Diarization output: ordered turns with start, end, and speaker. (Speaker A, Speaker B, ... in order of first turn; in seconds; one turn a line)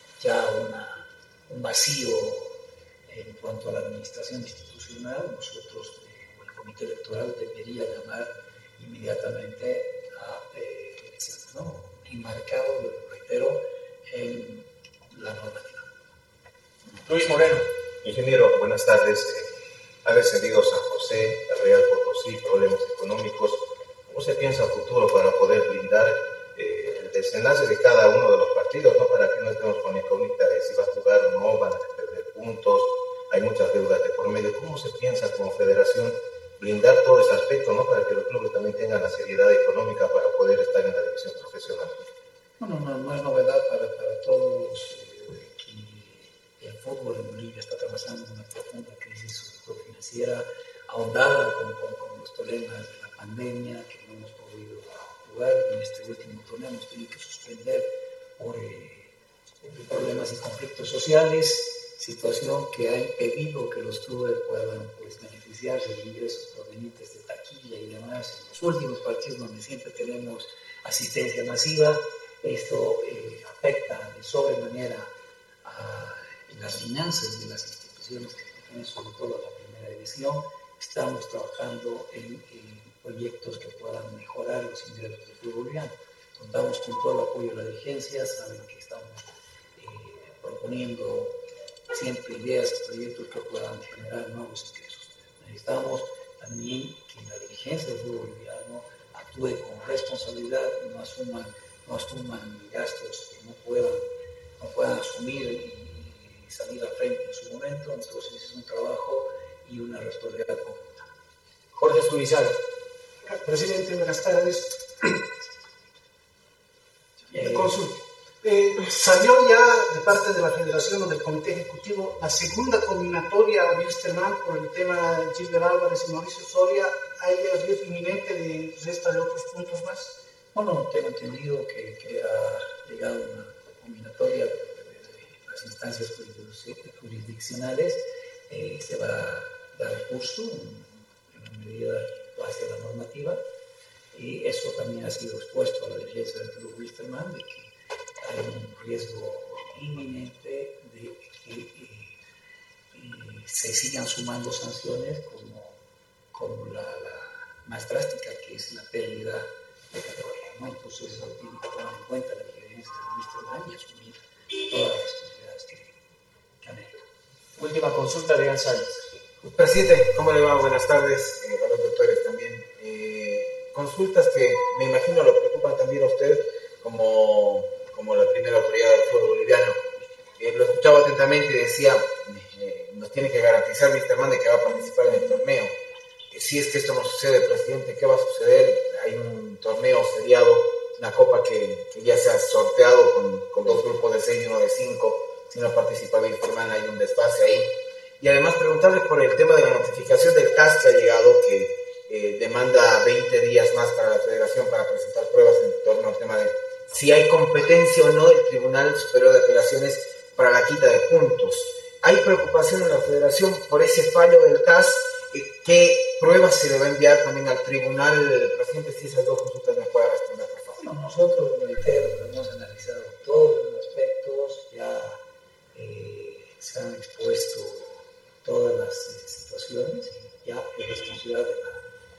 Speaker A: 0.2-15.9
Speaker B: 17.1-17.6
Speaker C: 18.0-19.5
Speaker C: 20.1-42.0
Speaker A: 42.6-75.1
Speaker A: 75.6-91.3
Speaker A: 91.9-104.1
Speaker A: 104.6-111.1
Speaker B: 111.8-112.6
Speaker D: 113.2-115.1
Speaker A: 117.3-117.9
Speaker D: 117.3-130.1
Speaker A: 130.5-143.4
Speaker A: 144.1-147.7
Speaker A: 148.2-152.2
Speaker A: 152.9-155.8
Speaker A: 156.3-166.0
Speaker A: 166.6-167.0
Speaker B: 167.6-169.1
Speaker E: 169.4-185.7
Speaker E: 186.3-197.7
Speaker E: 198.2-220.8
Speaker A: 220.7-225.2
Speaker A: 225.7-231.8